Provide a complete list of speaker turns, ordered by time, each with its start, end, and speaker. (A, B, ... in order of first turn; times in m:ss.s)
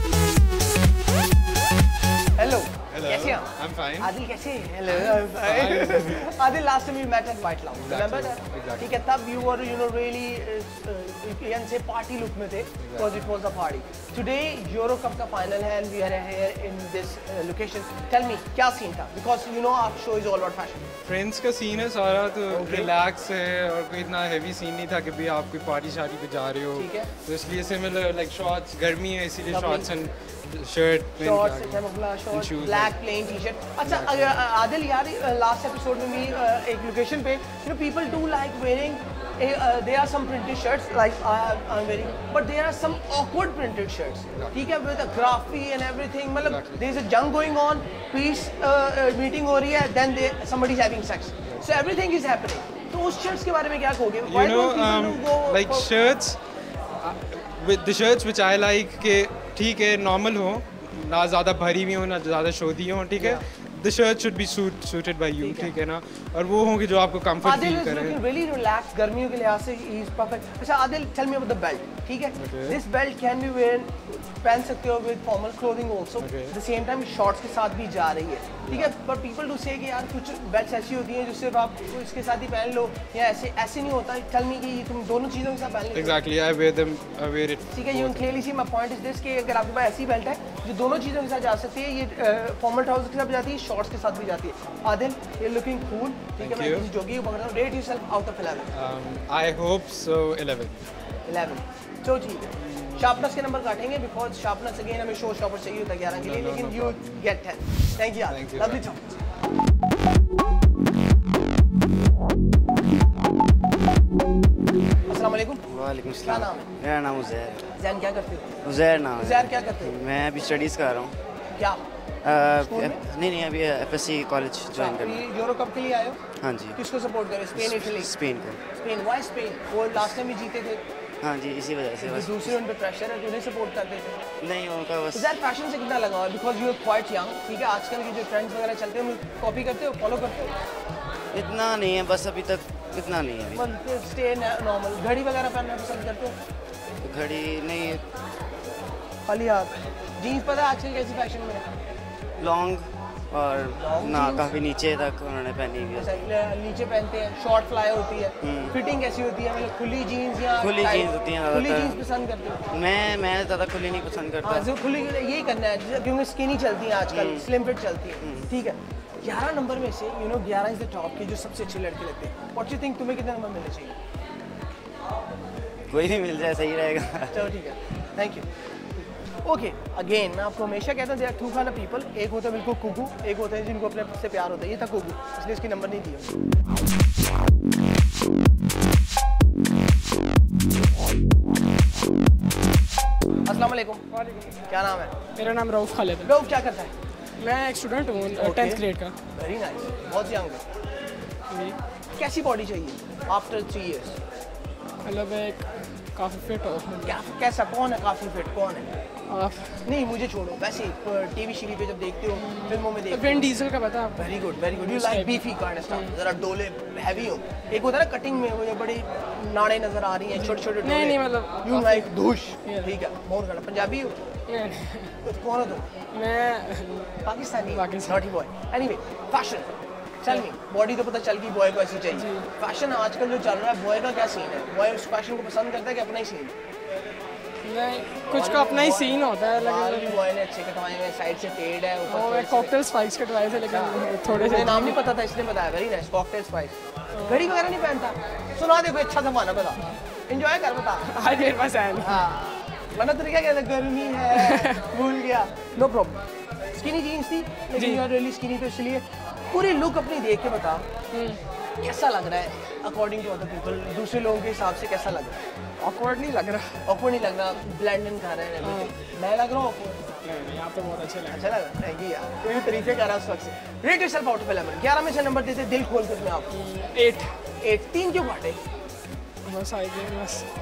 0:02.4-0:20.9 A
0:02.9-0:04.1 B
0:04.8-0:06.3 B
0:07.8-0:09.0 B
0:12.8-0:13.2 B
0:21.0-0:33.0 B
0:22.5-0:22.9 A
0:26.8-0:27.1 A
0:29.5-0:29.9 A
0:31.2-0:55.9 A
0:33.8-0:34.4 B
0:46.4-0:46.9 B
0:51.4-0:51.8 B
0:54.2-0:56.4 B
0:57.0-1:08.2 B
1:03.2-1:03.4 A
1:05.4-1:05.7 A
1:07.4-1:26.2 A
1:12.4-1:12.8 B
1:16.2-1:16.6 B
1:18.6-1:18.9 B
1:25.9-1:28.5 B
1:27.7-1:38.7 A
1:36.4-1:36.9 B
1:38.7-1:40.8 B
1:41.3-1:49.1 A
1:42.6-1:43.3 B
1:46.1-1:47.3 B
1:48.2-1:48.8 B
1:55.1-1:55.7 A
1:55.7-1:57.7 C
1:56.2-1:56.7 A
1:57.8-1:58.6 A
1:58.6-2:01.2 C
1:59.2-2:00.0 A
2:01.5-2:01.8 A
2:02.2-2:05.2 C
2:02.6-2:03.0 A
2:04.7-2:06.2 A
2:06.4-2:06.8 C
2:06.8-2:08.1 A
2:07.6-2:08.6 C
2:08.7-2:10.8 A
2:11.2-2:12.6 C
2:12.0-2:14.3 A
2:14.4-2:15.4 C
2:15.2-2:20.5 A
2:21.3-2:23.7 C
2:23.5-2:26.4 A
2:27.0-2:28.0 C
2:29.3-2:31.6 A
2:32.4-2:36.3 C
2:33.8-2:34.5 A
2:36.0-2:42.7 A
2:38.4-2:38.8 C
2:40.6-2:42.0 C
2:42.7-2:44.7 C
2:44.4-2:54.0 A
2:47.1-2:47.5 C
2:48.2-2:48.5 C
2:55.9-2:57.4 C
2:57.3-2:58.5 A
2:59.4-3:06.3 A
3:13.5-3:14.0 A
3:14.7-3:15.1 A
3:15.4-3:16.3 D
3:16.2-3:16.9 A
3:17.4-3:19.2 D
3:18.3-3:20.6 A
3:21.5-3:21.8 D
3:22.2-3:24.2 A
3:25.0-3:27.2 D
3:27.0-3:28.9 A
3:29.3-3:29.9 D
3:29.8-3:33.5 A
3:32.4-3:36.2 D
3:34.2-3:44.2 A
3:40.4-3:42.1 D
3:42.6-3:43.0 D
3:44.5-3:45.2 D
3:45.2-3:45.9 A
3:46.1-3:48.2 D
3:47.2-3:49.7 A
3:50.2-3:56.5 A
3:52.1-3:52.5 D
3:57.6-4:00.2 D
3:58.3-4:02.8 A
4:02.1-4:05.0 D
4:03.7-4:11.1 A
4:07.2-4:07.5 D
4:11.0-4:12.3 D
4:12.0-4:16.2 A
4:14.4-4:14.8 D
4:16.8-4:20.9 A
4:17.7-4:18.0 D
4:21.1-4:21.4 D
4:21.8-4:25.4 A
4:25.8-4:26.8 D
4:26.8-4:30.0 A
4:28.6-4:28.9 D
4:30.2-4:31.5 D
4:31.3-4:36.6 A
4:36.5-4:37.4 D
4:37.6-4:38.6 A
4:39.4-4:40.5 D